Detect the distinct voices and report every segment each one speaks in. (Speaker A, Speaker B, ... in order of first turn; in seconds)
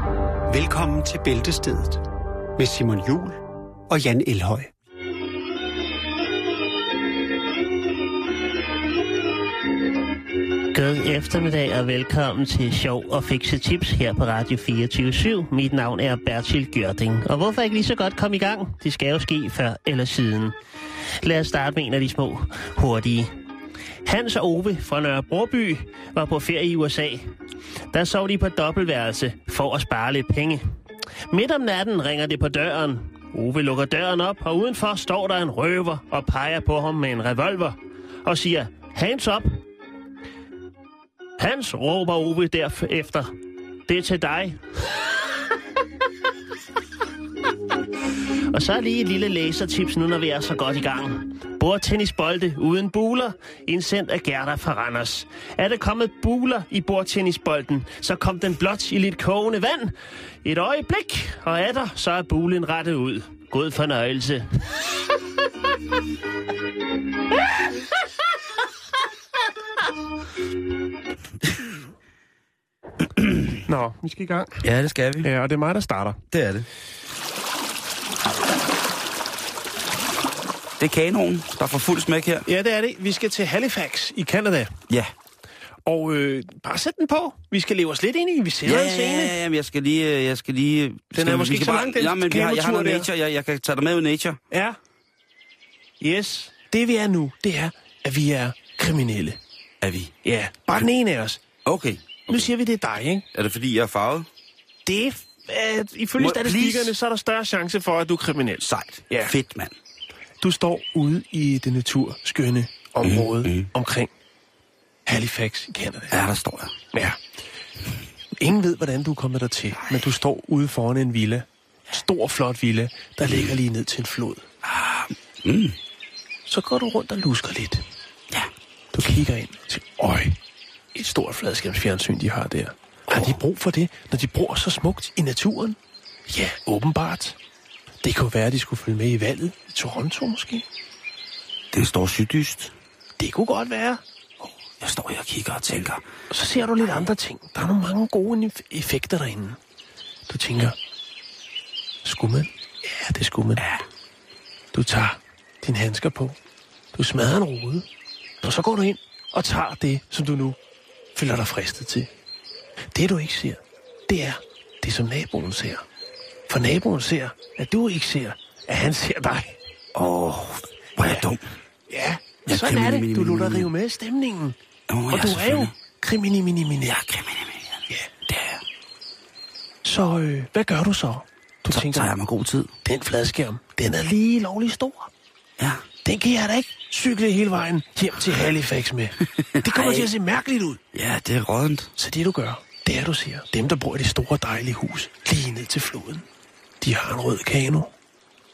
Speaker A: 0.5-2.0, 2.6-4.7
Speaker B: 10.7-20.5, 21.2-23.3, 24.0-27.2, 27.9-30.6, 31.3-39.5, 41.4-43.3, 43.9-44.6, 48.5-64.4
Speaker C: 73.2-73.5, 74.6-75.3, 76.3-76.7, 80.8-82.5, 88.6-94.4, 99.8-100.1, 101.6-102.5, 103.3-104.3, 106.2-107.0, 108.6-109.7, 113.0-113.7, 116.1-116.7, 123.2-123.5, 124.6-125.8, 133.1-133.4, 141.7-142.7, 144.8-146.0, 153.6-153.8, 169.9-171.4, 172.5-173.7, 174.9-175.7, 176.9-178.6, 181.7-182.7, 185.6-185.8, 189.4-190.1, 190.9-191.9
Speaker D: 73.7-74.6, 75.2-76.2, 82.5-84.7, 85.8-89.3, 91.1-93.1, 94.5-94.8, 96.0-99.4, 100.2-101.4, 102.3-103.2, 104.8-109.3, 110.4-114.1, 115.0-116.2, 116.9-117.2, 118.4-124.4, 126.5-127.8, 128.9-130.4, 130.9-135.8, 136.3-137.3, 138.0-140.6, 143.2-144.0, 146.3-149.6, 150.3-150.8, 152.0-153.6, 154.7-156.4, 156.9-157.8, 158.4-160.6, 161.2-162.1, 162.9-165.8, 166.5-169.6, 171.9-174.6, 175.1-177.0, 179.8-182.1, 182.8-185.1, 186.0-190.8, 192.0-196.2, 196.8-197.9